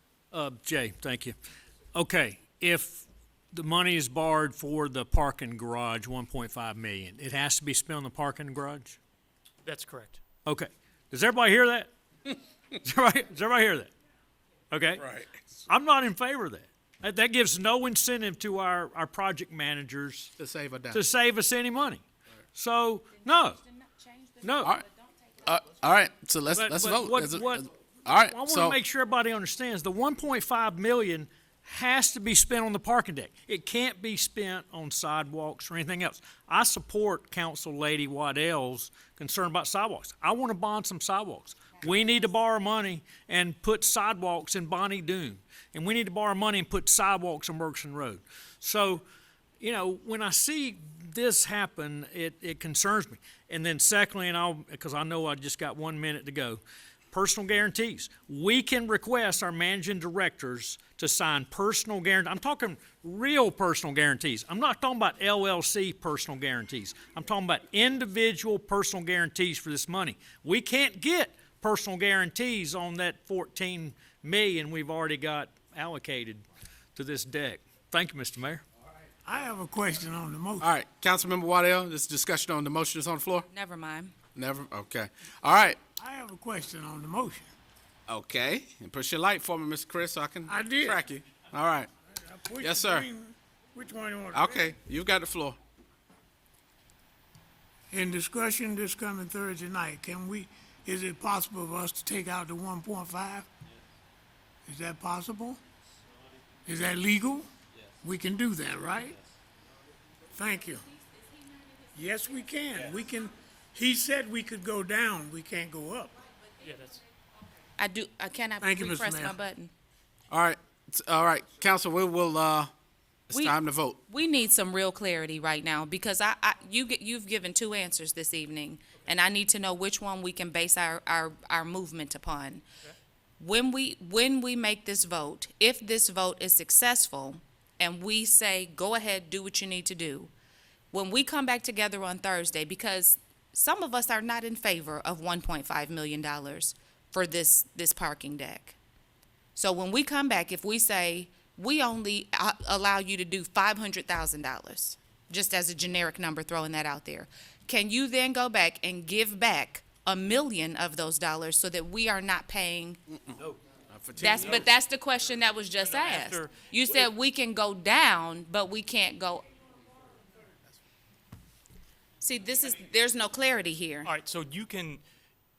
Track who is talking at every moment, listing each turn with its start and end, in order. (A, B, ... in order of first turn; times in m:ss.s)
0:00.3-0:01.4 A
0:01.9-0:09.0 A
0:09.6-0:10.2 B
0:10.4-0:13.9 A
0:14.7-0:15.1 A
0:15.0-0:15.5 C
0:15.7-0:20.3 A
0:20.4-0:21.0 C
0:20.9-0:23.6 A
0:23.2-0:25.5 D
0:24.4-0:24.7 A
0:25.4-0:28.8 C
0:26.5-0:27.7 A
0:28.3-0:49.0 A
0:49.6-1:16.4 A
1:17.0-1:18.6 A
1:19.2-1:20.7 E
1:20.6-1:23.5 C
1:23.5-1:24.2 D
1:24.3-1:25.8 C
1:26.0-1:27.5 E
1:28.1-1:31.9 C
1:30.5-1:31.0 E
1:32.2-1:34.7 E
1:32.6-1:33.1 C
1:34.3-1:35.6 C
1:37.9-1:43.5 E
1:44.7-1:45.6 E
1:46.7-1:49.2 E
1:50.3-1:50.9 E
1:51.9-1:56.2 E
1:56.6-1:57.0 B
1:57.8-1:59.7 D
1:58.6-1:59.4 E
2:00.3-2:02.7 C
2:03.3-2:04.0 C
2:03.3-2:12.6 D
2:13.4-2:20.3 D
2:20.9-2:28.8 D
2:29.6-2:43.0 D
2:43.9-2:44.7 C
2:44.2-2:49.4 D
2:45.8-2:47.1 B
2:52.2-2:54.1 D
2:54.0-2:55.0 B